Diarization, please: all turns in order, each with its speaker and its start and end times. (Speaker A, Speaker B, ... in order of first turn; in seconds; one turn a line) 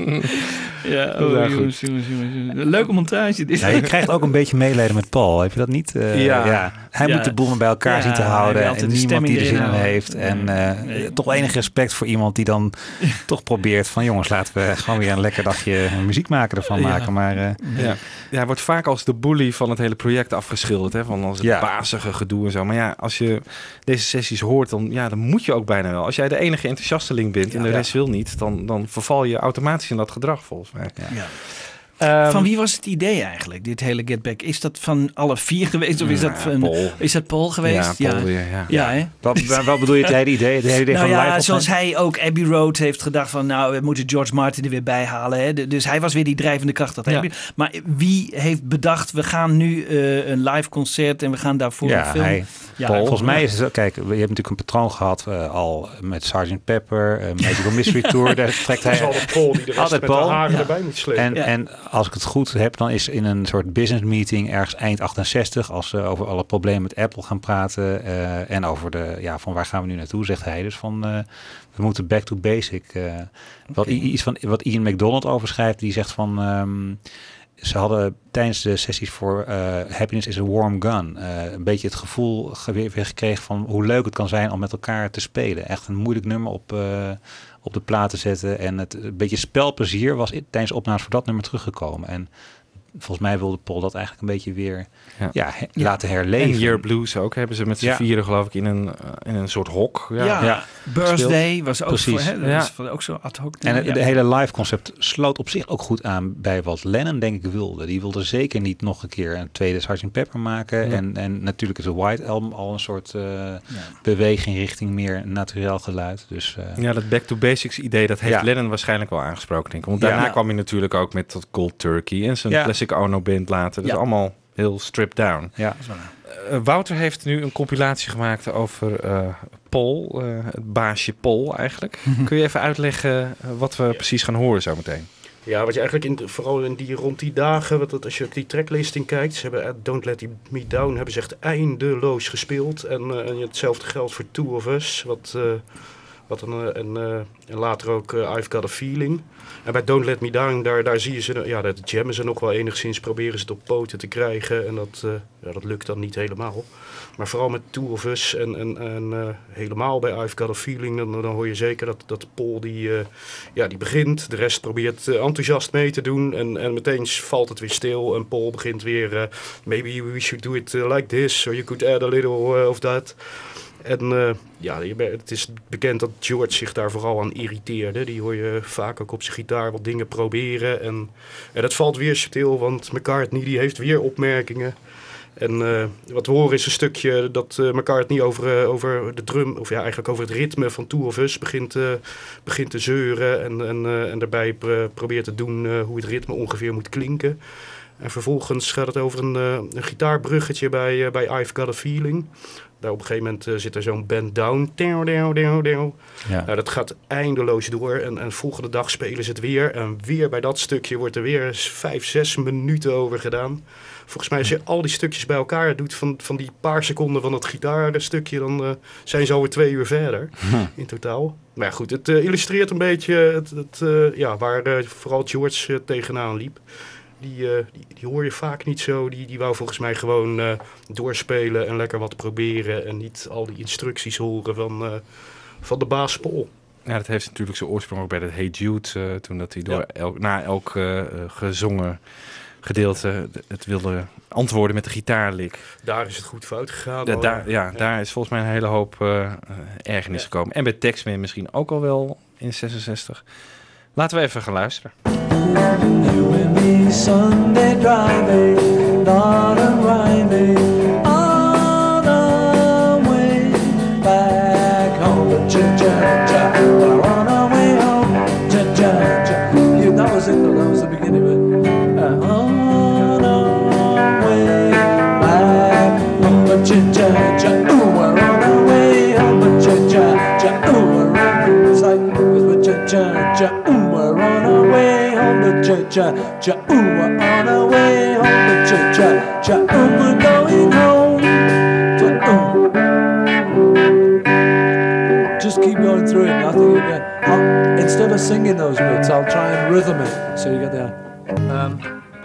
Speaker A: 0.8-4.1
Speaker B: 1.2-1.8
Speaker C: 3.6-18.0
Speaker B: 6.1-6.7
Speaker A: 7.0-11.6
Speaker A: 16.8-17.9
Speaker B: 17.8-32.5
Speaker C: 21.4-21.7
Speaker C: 27.5-27.9
Speaker A: 31.1-40.1
Speaker B: 36.0-39.1
Speaker C: 38.7-41.7
Speaker A: 40.9-53.4
Speaker C: 51.8-97.0
Speaker B: 52.9-53.4
Speaker D: 58.8-61.3
Speaker A: 60.5-61.5
Speaker B: 73.7-74.1
Speaker B: 95.2-95.5
Speaker B: 96.4-101.7
Speaker C: 97.8-98.0
Speaker A: 100.2-104.2
Speaker C: 101.9-102.3
Speaker B: 102.4-102.7
Speaker C: 103.6-116.8
Speaker A: 113.7-114.0
Speaker B: 116.8-135.1
Speaker C: 120.0-120.4
Speaker C: 125.6-125.8
Speaker A: 125.8-126.1
Speaker D: 135.4-236.5
Speaker B: 220.4-220.7
Speaker B: 236.8-245.7
Speaker D: 245.8-247.8
Speaker B: 247.0-253.3
Speaker B: 253.9-254.9
Speaker E: 255.5-260.8
Speaker E: 263.9-292.6
Speaker E: 295.4-301.9